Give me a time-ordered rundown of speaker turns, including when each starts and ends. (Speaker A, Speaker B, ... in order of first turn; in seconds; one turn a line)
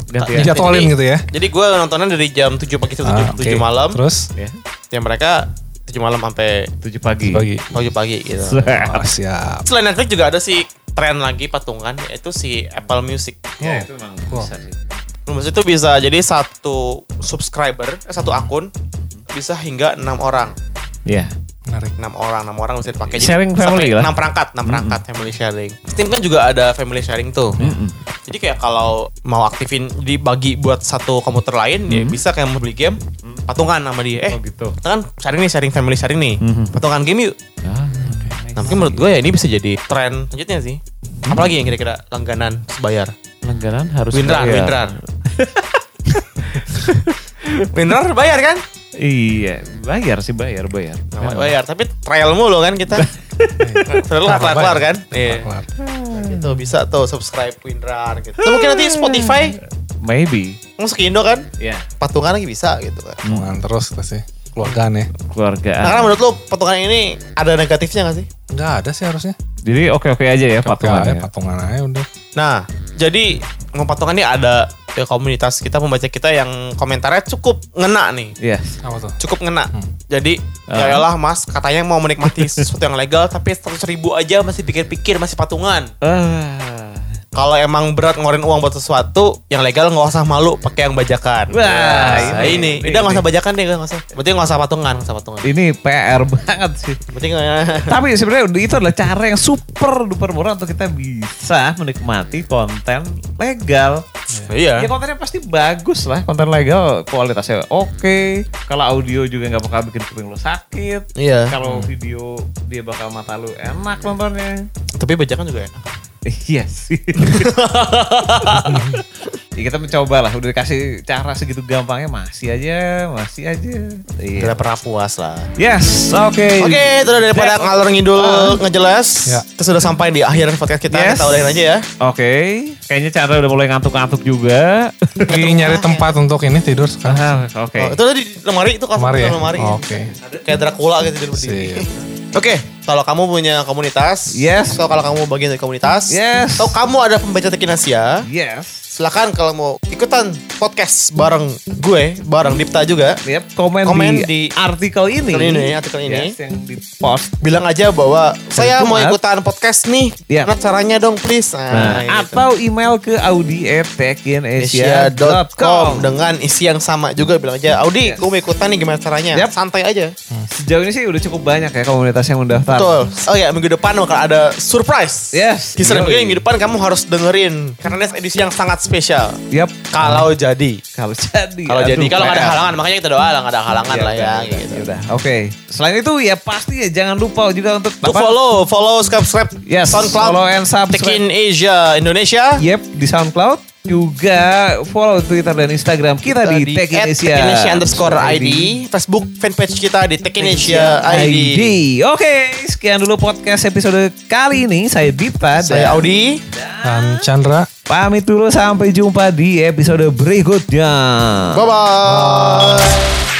Speaker A: 0.1-0.7
Speaker B: 0.2-4.0
Speaker C: 0.3-1.2
Speaker C: 3.0-4.3
Speaker B: 4.9-6.7
Speaker A: 6.8-7.4
Speaker C: 7.2-7.9
Speaker B: 7.7-8.7
Speaker A: 8.4-9.0
Speaker C: 8.6-9.6
Speaker B: 9.7-13.6
Speaker C: 13.6-14.5
Speaker A: 13.6-14.8
Speaker B: 15.3-18.7
Speaker B: 19.3-20.5
Speaker A: 21.1-21.3
Speaker C: 21.7-21.9
Speaker B: 22.0-27.7
Speaker A: 23.1-24.1
Speaker A: 24.7-25.0
Speaker A: 27.6-28.0
Speaker B: 28.2-37.3
Speaker A: 31.9-32.2
Speaker A: 34.3-34.8
Speaker A: 36.4-36.7
Speaker A: 37.6-39.1
Speaker C: 38.0-38.4
Speaker B: 38.6-43.1
Speaker A: 41.2-41.5
Speaker A: 43.4-45.8
Speaker B: 44.1-44.9
Speaker A: 46.4-47.7
Speaker B: 46.7-47.0
Speaker B: 47.7-48.6
Speaker A: 49.0-51.5
Speaker B: 51.1-53.1
Speaker A: 53.0-54.0
Speaker C: 53.6-55.7
Speaker B: 53.9-55.5
Speaker A: 55.8-56.4
Speaker B: 56.1-59.6
Speaker A: 58.4-60.6
Speaker B: 60.8-61.5
Speaker A: 61.6-61.9
Speaker B: 62.0-63.2
Speaker A: 63.2-63.5
Speaker C: 63.3-65.1
Speaker A: 65.2-66.1
Speaker B: 65.8-68.3
Speaker C: 68.5-69.3
Speaker A: 69.7-71.2
Speaker C: 70.6-72.0
Speaker B: 72.3-78.3
Speaker A: 78.4-78.8
Speaker C: 78.8-79.2
Speaker B: 79.2-85.9
Speaker A: 80.7-81.0
Speaker A: 82.3-82.6
Speaker A: 86.0-87.1
Speaker B: 87.3-95.5
Speaker A: 91.5-93.2
Speaker A: 95.4-97.0
Speaker B: 97.1-97.9
Speaker A: 97.9-104.1
Speaker B: 104.5-104.9
Speaker A: 104.8-114.7
Speaker B: 111.2-111.5
Speaker C: 111.6-111.9
Speaker B: 115.0-115.8
Speaker A: 116.2-117.5
Speaker B: 117.2-118.9
Speaker C: 118.6-119.0
Speaker A: 119.6-124.6
Speaker B: 124.4-125.5
Speaker A: 125.6-128.6
Speaker B: 126.6-131.8
Speaker A: 130.9-135.4
Speaker B: 135.3-136.1
Speaker C: 135.3-137.3
Speaker A: 137.0-138.0
Speaker B: 137.8-139.8
Speaker C: 139.0-140.1
Speaker B: 140.3-148.2
Speaker C: 141.3-141.9
Speaker A: 144.3-144.8
Speaker A: 146.1-146.7
Speaker A: 148.2-148.8
Speaker B: 149.0-153.2
Speaker A: 153.2-157.3
Speaker B: 153.8-154.5
Speaker B: 155.3-156.3
Speaker B: 157.4-162.4
Speaker A: 158.6-159.2
Speaker A: 161.7-166.1
Speaker B: 164.6-170.1
Speaker A: 170.5-172.9
Speaker B: 172.7-179.4
Speaker A: 175.3-176.4
Speaker A: 179.5-179.9
Speaker B: 179.9-180.8
Speaker A: 180.9-182.6
Speaker B: 181.7-184.8
Speaker A: 183.9-188.3
Speaker B: 188.0-192.6
Speaker A: 189.6-191.2
Speaker A: 192.6-198.8
Speaker B: 196.2-201.7
Speaker A: 200.4-207.2
Speaker B: 205.6-206.4
Speaker C: 206.8-207.7
Speaker A: 207.9-211.6
Speaker B: 211.5-213.0
Speaker C: 212.0-212.9